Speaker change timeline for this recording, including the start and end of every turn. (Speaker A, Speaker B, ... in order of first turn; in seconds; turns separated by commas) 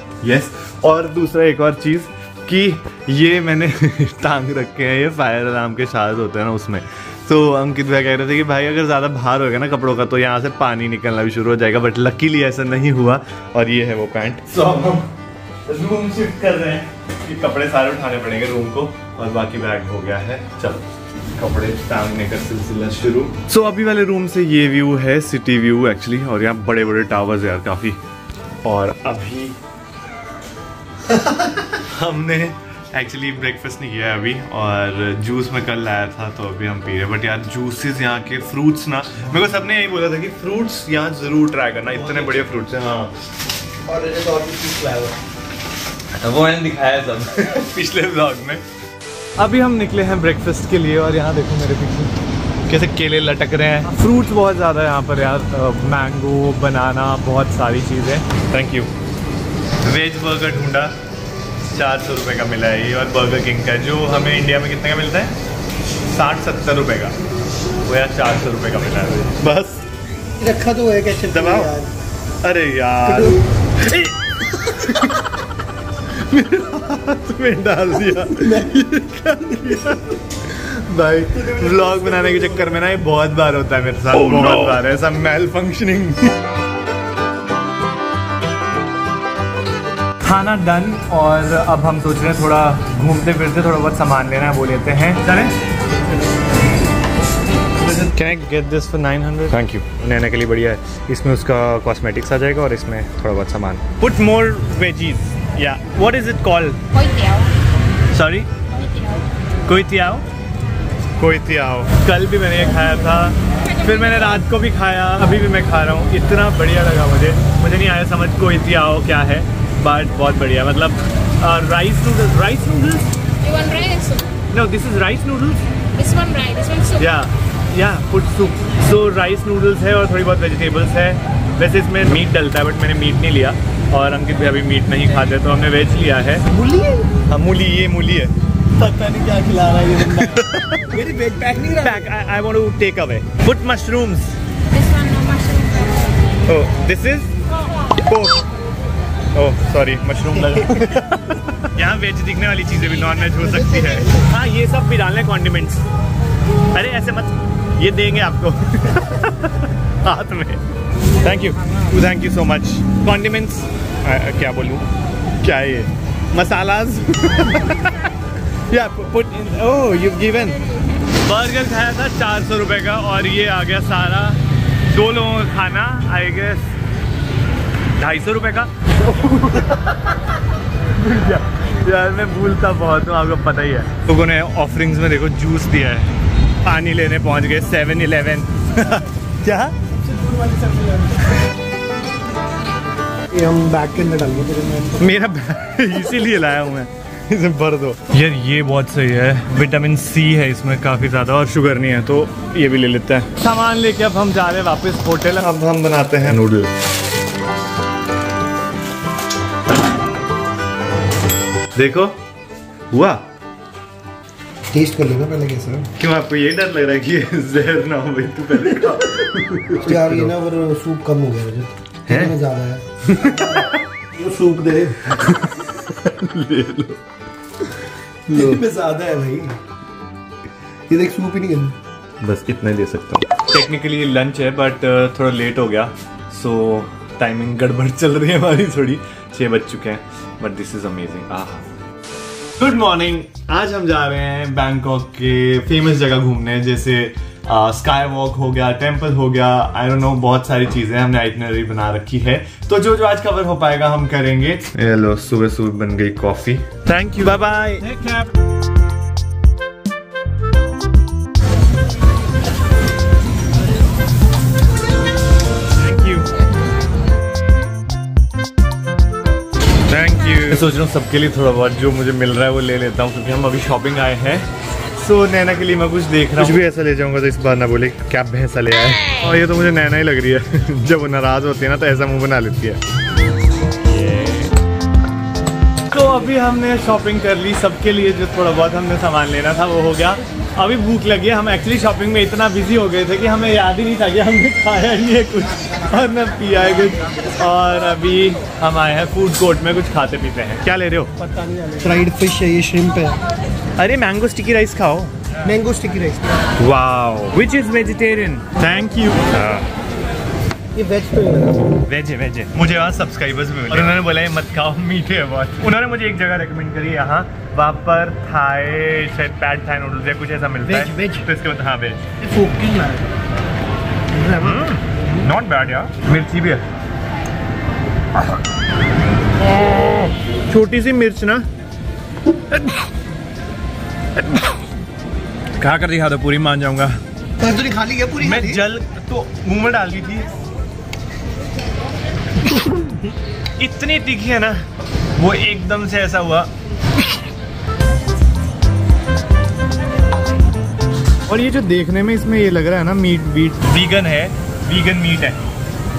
Speaker A: 0.2-15.1, Speaker A: 15.7-20.9, Speaker A: 21.4-28.0, Speaker A: 28.6-29.6, Speaker A: 31.1-43.1, Speaker B: 43.9-45.1, Speaker A: 46.2-48.6, Speaker A: 49.4-52.1, Speaker A: 52.7-58.9, Speaker A: 59.8-61.0, Speaker A: 61.7-65.3, Speaker A: 66.0-67.2, Speaker A: 67.8-69.8, Speaker B: 70.4-71.9, Speaker A: 71.2-71.8, Speaker A: 72.4-75.3, Speaker B: 73.1-73.4, Speaker A: 76.1-86.4, Speaker B: 78.3-78.8, Speaker A: 90.2-95.5, Speaker A: 97.9-106.8, Speaker C: 106.9-107.5, Speaker A: 108.1-108.5, Speaker A: 109.7-110.2, Speaker A: 111.2-123.1, Speaker C: 123.5-124.3, Speaker A: 124.5-125.6, Speaker C: 126.0-126.9, Speaker A: 126.8-136.4, Speaker B: 136.6-137.1, Speaker A: 137.3-141.0, Speaker B: 140.9-142.1, Speaker A: 141.6-144.4, Speaker C: 144.7-146.1, Speaker A: 146.5-147.3, Speaker A: 148.0-148.4, Speaker A: 149.3-155.8, Speaker B: 153.4-154.2, Speaker A: 156.7-160.6, Speaker A: 161.2-164.8, Speaker A: 165.4-168.0, Speaker A: 168.7-176.7, Speaker A: 178.0-180.2, Speaker A: 180.9-189.8, Speaker B: 190.2-190.8, Speaker A: 190.4-190.9, Speaker B: 193.3-195.0, Speaker A: 195.0-206.7, Speaker A: 211.8-212.2, Speaker A: 212.9-213.2, Speaker B: 214.7-215.9, Speaker A: 216.0-220.3, Speaker B: 219.8-225.1, Speaker A: 222.1-222.4, Speaker A: 223.1-223.9, Speaker A: 225.1-227.0, Speaker B: 228.3-229.6, Speaker A: 228.3-228.9, Speaker B: 230.9-231.8, Speaker A: 232.2-241.7, Speaker A: 242.6-258.2, Speaker A: 265.8-266.3, Speaker A: 269.9-282.8, Speaker A: 283.9-284.5, Speaker A: 285.9-301.1, Speaker B: 301.2-303.2, Speaker A: 303.8-305.1, Speaker B: 305.4-306.3, Speaker A: 306.6-309.7, Speaker B: 310.8-311.6, Speaker A: 311.9-322.1, Speaker B: 320.7-321.2, Speaker B: 322.2-323.1, Speaker B: 324.2-324.6, Speaker A: 324.4-326.6, Speaker A: 329.6-331.5, Speaker A: 335.6-337.0, Speaker B: 337.4-338.6, Speaker A: 338.2-340.3, Speaker A: 342.4-342.8, Speaker A: 343.6-344.6, Speaker A: 345.2-346.5, Speaker A: 351.3-355.4